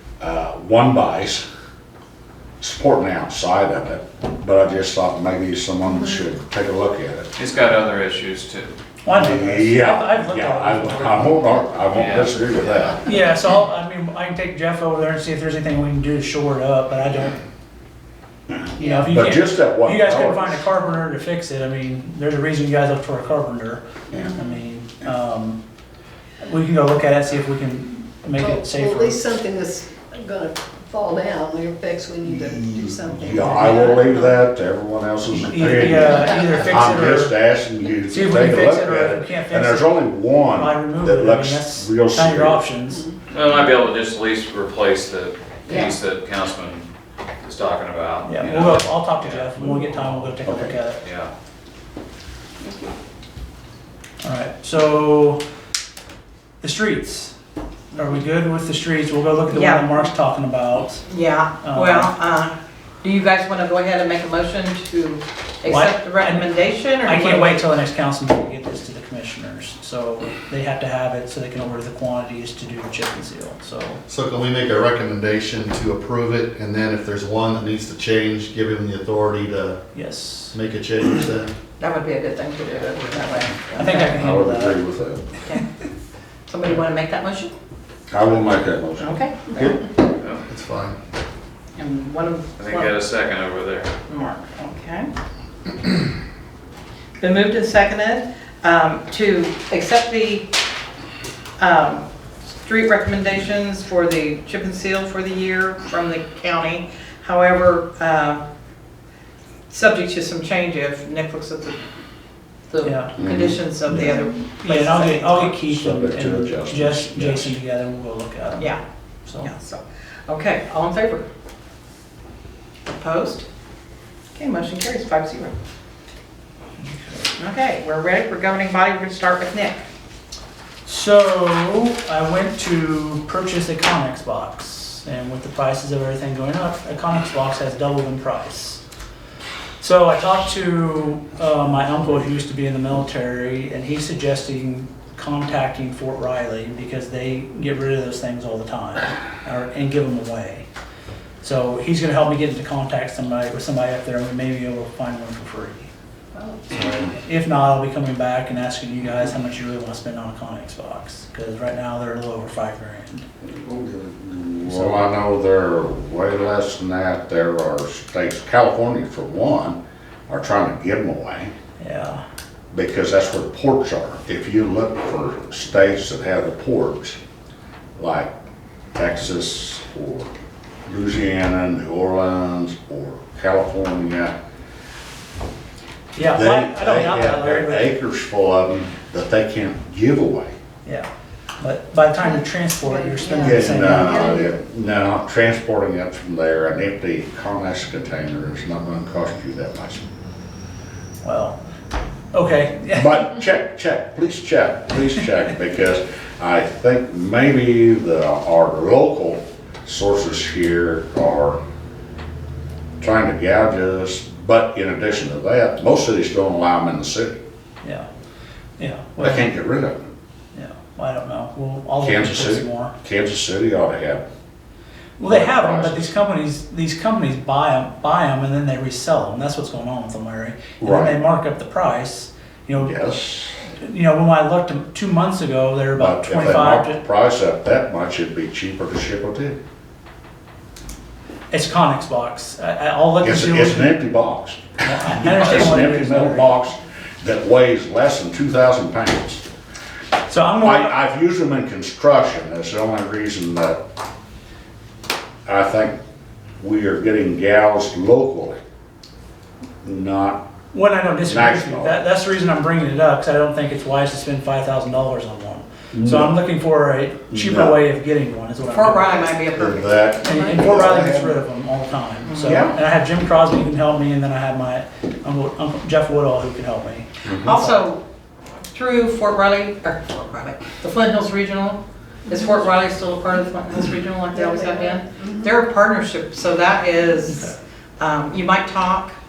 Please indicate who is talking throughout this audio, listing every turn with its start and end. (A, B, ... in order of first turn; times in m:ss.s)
0:00.2-0:01.4 A
0:02.6-0:07.3 A
0:07.4-0:08.7 B
0:09.0-0:11.4 C
0:09.1-0:13.0 A
0:11.9-0:12.4 B
0:13.0-0:17.4 C
0:18.7-0:25.6 C
0:19.0-0:20.6 A
0:26.4-0:29.4 C
0:28.4-0:34.4 D
0:32.2-0:42.6 A
0:33.3-0:34.0 C
0:35.3-0:37.3 C
0:38.1-0:43.1 C
0:43.3-0:46.9 B
0:47.4-0:50.3 B
0:48.2-0:51.0 C
0:50.4-0:50.7 A
0:51.0-0:51.3 B
0:52.6-0:52.9 D
0:54.2-0:55.4 C
0:56.6-0:57.3 C
0:57.9-1:01.0 C
0:59.5-1:00.0 E
1:01.0-1:07.6 E
1:01.6-1:02.1 C
1:05.7-1:06.5 C
1:07.0-1:14.0 C
1:14.1-1:19.8 F
1:19.9-1:20.5 C
1:20.5-1:21.5 F
1:21.8-1:24.0 E
1:23.7-1:24.8 C
1:23.8-1:25.2 A
1:26.5-1:27.5 E
1:28.1-1:29.2 A
1:29.0-1:29.9 E
1:30.5-1:31.0 F
1:31.8-1:33.0 E
1:32.6-1:33.9 B
1:34.1-1:35.1 E
1:37.2-1:40.5 E
1:41.6-1:48.4 E
1:49.7-1:51.8 E
1:52.7-1:55.5 E
1:52.8-1:53.1 C
1:53.2-1:54.0 A
1:53.8-1:59.5 C
1:55.4-1:57.6 A
1:59.4-2:01.2 E
2:02.8-2:03.4 E
2:04.3-2:05.5 E
2:06.8-2:07.3 C
2:07.4-2:09.8 E
2:10.8-2:18.8 C
2:19.8-2:30.6 C
2:31.4-2:35.9 C
2:36.7-2:43.3 C
2:43.5-2:51.5 A
2:44.7-2:45.0 C
2:51.8-2:52.2 C
2:52.7-2:57.2 A
2:58.0-2:58.3 A
2:58.9-3:00.3 A
3:00.8-3:04.3 A
3:06.1-3:07.9 C
3:06.3-3:10.5 A
3:10.8-3:14.4 C
3:13.2-3:14.4 D
3:13.4-3:20.0 A
3:21.2-3:21.6 C
3:22.3-3:23.3 C
3:22.9-3:31.6 A
3:33.0-3:37.4 A
3:37.8-3:38.1 C
3:38.8-3:39.5 C
3:39.2-3:40.0 A
3:40.5-3:42.9 C
3:42.0-3:44.2 A
3:45.2-3:53.0 C
3:45.2-3:46.1 A
3:50.8-3:51.2 A
3:52.8-3:53.5 A
3:53.8-3:57.0 C
3:55.9-3:59.6 A
4:01.5-4:04.0 C
4:03.2-4:09.4 A
4:04.8-4:06.5 C
4:10.3-4:10.9 C
4:10.6-4:13.8 A
4:15.4-4:16.0 A
4:16.6-4:18.6 A
4:19.8-4:20.4 A
4:20.7-4:29.2 C
4:21.2-4:22.0 A
4:25.9-4:26.4 A
4:27.3-4:27.8 A
4:28.7-4:30.6 E
4:29.6-4:31.4 A
4:30.2-4:37.8 C
4:32.2-4:32.7 E
4:32.4-4:32.8 A
4:37.2-4:37.5 A
4:37.4-4:38.0 E
4:38.7-4:49.1 E
4:44.4-4:45.3 D